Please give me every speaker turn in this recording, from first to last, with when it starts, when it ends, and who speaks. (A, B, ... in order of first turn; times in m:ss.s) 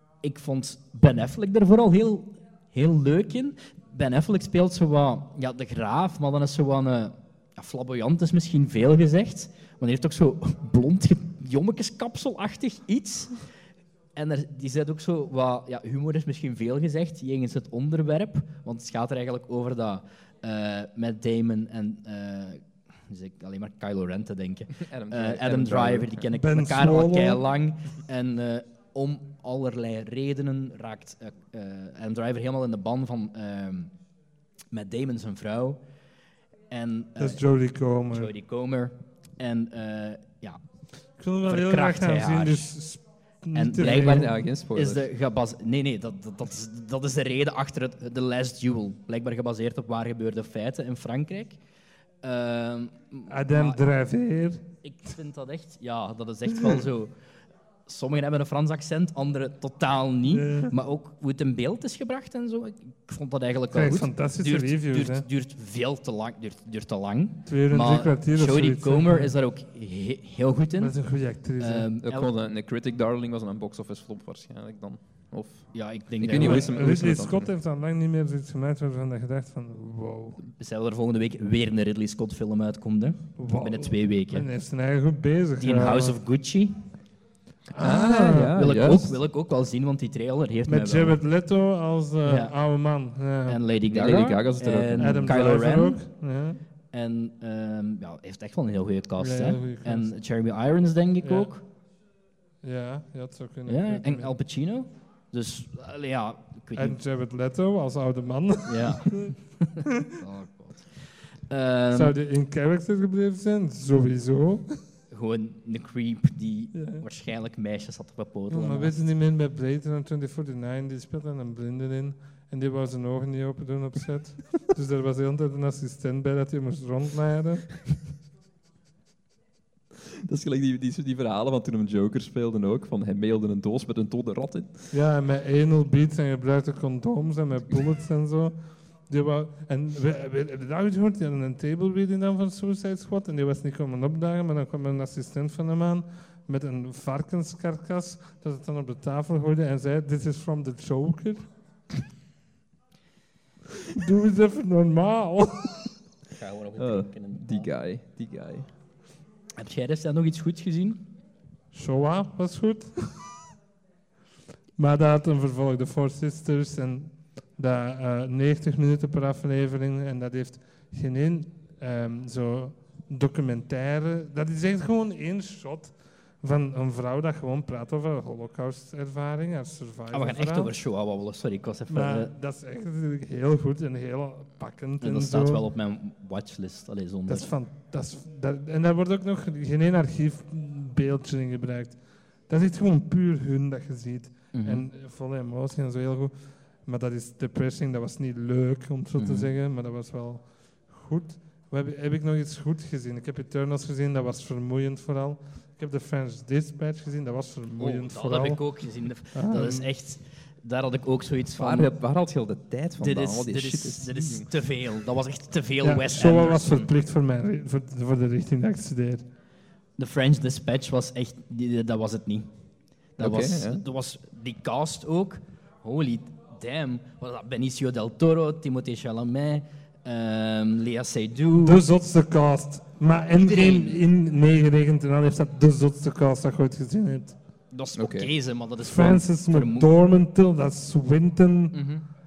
0:00.2-0:13.4 A
0:14.2-0:33.9 A
0:24.7-0:26.2 B
0:26.4-0:27.4 C
0:34.7-0:35.8 A
0:36.7-0:37.4 A
0:37.2-0:38.3 C
0:38.1-0:40.6 A
0:41.2-0:44.3 C
0:41.5-0:42.7 A
0:43.5-0:51.6 A
0:43.8-0:45.0 B
0:52.2-0:53.8 A
0:53.3-0:54.6 C
0:54.8-0:57.1 A
0:57.9-1:11.0 A
1:00.3-1:00.7 C
1:03.7-1:05.2 C
1:07.5-1:09.3 C
1:10.8-1:11.9 C
1:11.6-1:12.3 A
1:12.0-1:17.5 B
1:15.7-1:16.7 A
1:16.3-1:20.4 C
1:20.4-1:24.5 A
1:23.4-1:26.2 C
1:25.6-1:26.9 A
1:27.8-1:28.5 C
1:27.8-1:29.2 B
1:28.3-1:31.2 A
1:30.7-1:33.6 C
1:32.2-1:32.5 A
1:33.5-1:36.0 A
1:33.9-1:35.2 B
1:35.0-1:36.6 C
1:36.9-1:41.6 A
1:39.2-1:40.1 C
1:41.2-1:41.5 C
1:42.6-1:44.3 C
1:43.7-1:47.0 A
1:46.8-1:49.3 C
1:48.7-1:50.9 A
1:51.5-1:52.1 A
1:51.9-1:54.8 C
1:55.1-1:59.0 A
1:56.7-1:57.0 C
1:58.5-2:08.0 C
2:10.2-2:14.9 B
2:14.9-2:31.5 C
2:33.9-2:35.9 C
2:36.3-2:37.7 A
2:36.8-2:38.7 B
2:39.6-2:41.0 A
2:41.7-2:43.2 C
2:44.8-3:00.7 C
3:00.1-3:02.3 A
3:01.9-3:05.6 C
3:05.0-3:07.5 A
3:07.3-3:29.9 C
3:14.5-3:14.9 A
3:19.2-3:19.5 A
3:27.8-3:31.9 A
3:31.6-3:34.5 B
3:33.0-3:36.9 A
3:35.8-3:39.2 C
3:40.0-3:42.5 A
3:43.2-3:51.8 A
3:43.2-3:43.8 B
3:51.6-3:57.4 C
3:53.4-3:54.0 A
3:57.7-3:59.9 A
3:58.0-3:58.3 B
3:58.8-4:01.8 C
4:01.7-4:02.0 A